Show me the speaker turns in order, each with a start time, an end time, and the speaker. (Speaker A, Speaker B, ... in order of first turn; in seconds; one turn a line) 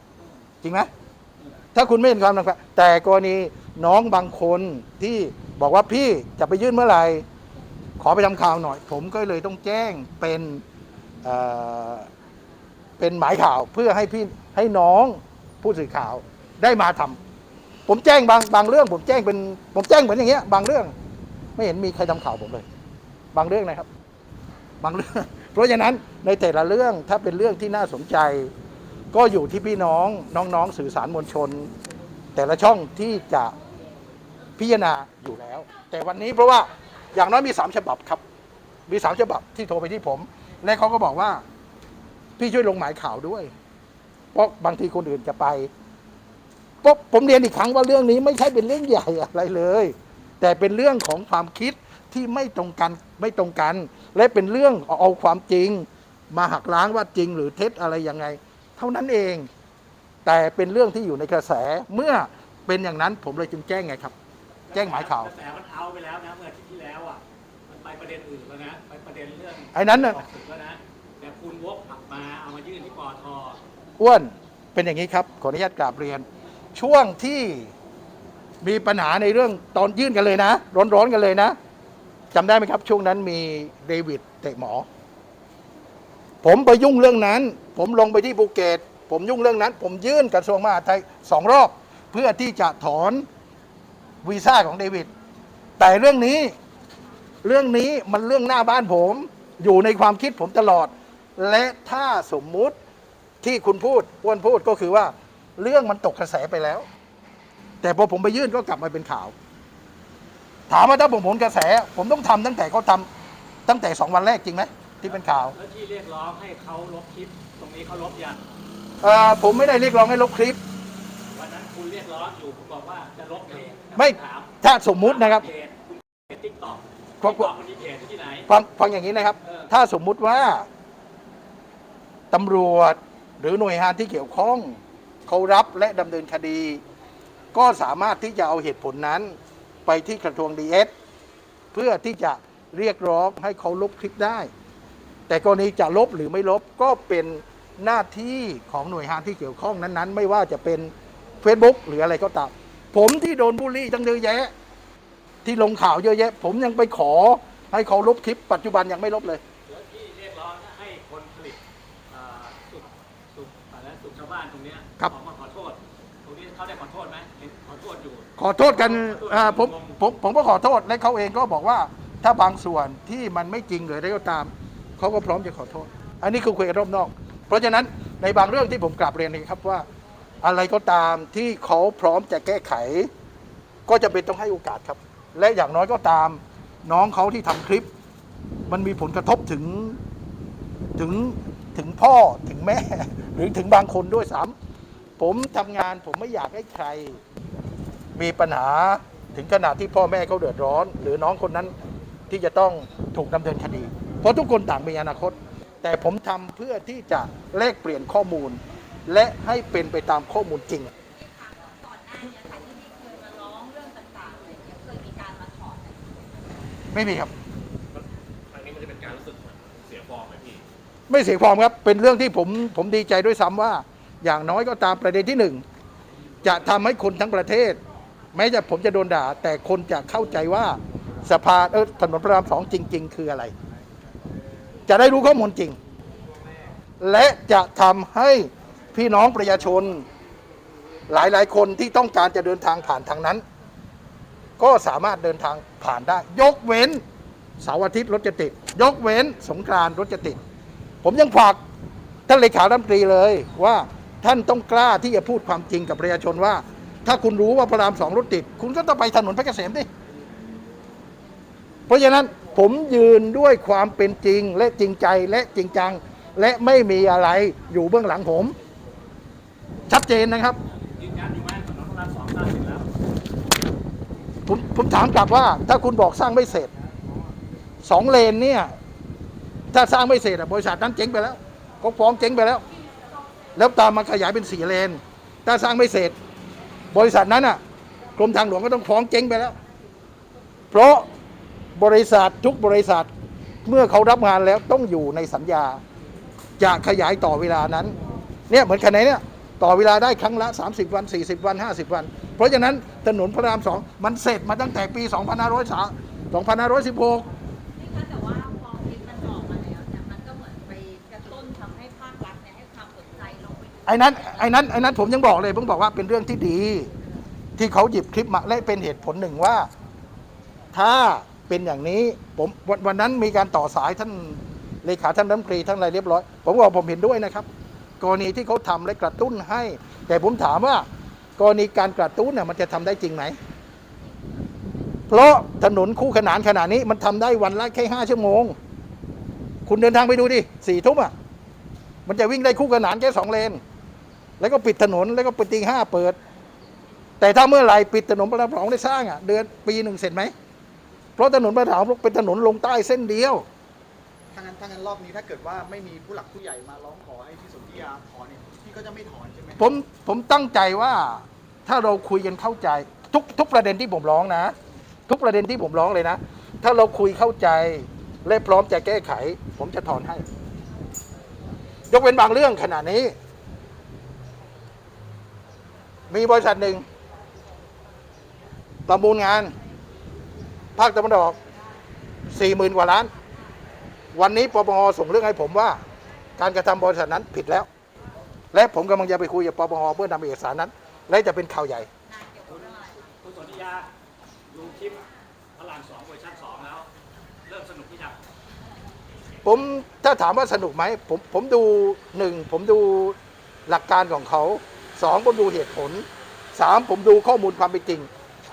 Speaker A: 0.6-0.9
Speaker A: 1.8-7.2
Speaker A: 8.0-10.6
Speaker A: 11.2-12.1
Speaker A: 13.0-17.2
Speaker A: 17.9-20.9
Speaker A: 21.6-22.7
Speaker A: 23.3-23.9
Speaker A: 24.8-28.5
Speaker A: 29.1-31.7
Speaker A: 32.4-33.5
Speaker A: 34.6-38.2
Speaker A: 38.9-41.4
Speaker A: 42.4-43.5
Speaker A: 44.3-45.7
Speaker A: 46.8-59.5
Speaker A: 60.2-64.1
Speaker B: 64.7-73.6
Speaker A: 64.7-65.3
Speaker A: 69.7-70.2
Speaker A: 74.0-77.7
Speaker A: 78.6-81.6
Speaker A: 82.3-84.9
Speaker A: 86.4-93.3
Speaker A: 94.2-95.1
Speaker A: 95.8-96.5
Speaker A: 97.4-102.8
Speaker A: 103.4-106.9
Speaker A: 107.8-109.3
Speaker A: 110.7-113.1
Speaker A: 113.7-115.6
Speaker B: 115.1-118.4
Speaker A: 119.0-120.6
Speaker B: 121.3-128.5
Speaker A: 124.0-125.5
Speaker A: 127.2-127.5
Speaker A: 128.5-130.7
Speaker B: 129.4-129.7
Speaker A: 132.3-136.8
Speaker A: 137.5-140.9
Speaker A: 141.7-144.5
Speaker A: 145.3-154.5
Speaker A: 155.4-159.4
Speaker B: 159.7-170.0
Speaker A: 168.4-179.9
Speaker A: 180.4-183.1
Speaker A: 183.9-187.9
Speaker A: 188.7-190.0
Speaker A: 191.0-194.6
Speaker A: 195.2-197.2
Speaker A: 198.2-201.7
Speaker A: 202.3-210.9
Speaker C: 211.1-216.5
Speaker A: 216.9-217.3
Speaker D: 217.9-220.6
Speaker A: 221.1-225.6
Speaker A: 226.4-227.8
Speaker A: 228.3-233.5
Speaker A: 234.9-235.8
Speaker A: 237.0-240.1
Speaker A: 241.1-243.4
Speaker A: 244.6-247.0
Speaker A: 247.6-250.4
Speaker A: 251.0-251.6
Speaker A: 252.3-259.9
Speaker A: 261.9-268.6
Speaker A: 269.9-270.6
Speaker B: 270.9-272.9
Speaker A: 274.5-276.7
Speaker A: 277.8-278.7
Speaker A: 279.7-282.6
Speaker A: 283.6-286.1
Speaker A: 286.9-287.6
Speaker A: 288.2-289.6
Speaker A: 290.7-291.1
Speaker A: 291.8-293.1
Speaker A: 293.6-295.8
Speaker A: 296.6-297.9
Speaker A: 298.5-307.3
Speaker C: 307.8-314.6
Speaker A: 313.9-316.9
Speaker A: 317.6-319.7
Speaker A: 320.7-327.5
Speaker A: 328.0-330.9
Speaker A: 331.4-333.4
Speaker A: 335.1-338.6
Speaker A: 339.7-341.1
Speaker A: 342.1-343.6
Speaker A: 344.4-346.2
Speaker A: 347.2-350.3
Speaker A: 351.2-353.5
Speaker E: 354.3-359.7
Speaker A: 359.6-364.6
Speaker A: 365.1-370.2
Speaker A: 371.9-373.1
Speaker A: 376.1-376.9
Speaker A: 378.9-379.5
Speaker A: 380.8-381.4
Speaker A: 382.3-383.1
Speaker A: 384.1-385.8
Speaker A: 386.4-387.7
Speaker A: 388.5-391.9
Speaker C: 392.1-393.1
Speaker B: 393.2-393.9
Speaker B: 394.5-395.0
Speaker B: 395.6-396.9
Speaker B: 397.5-398.2
Speaker A: 399.4-408.1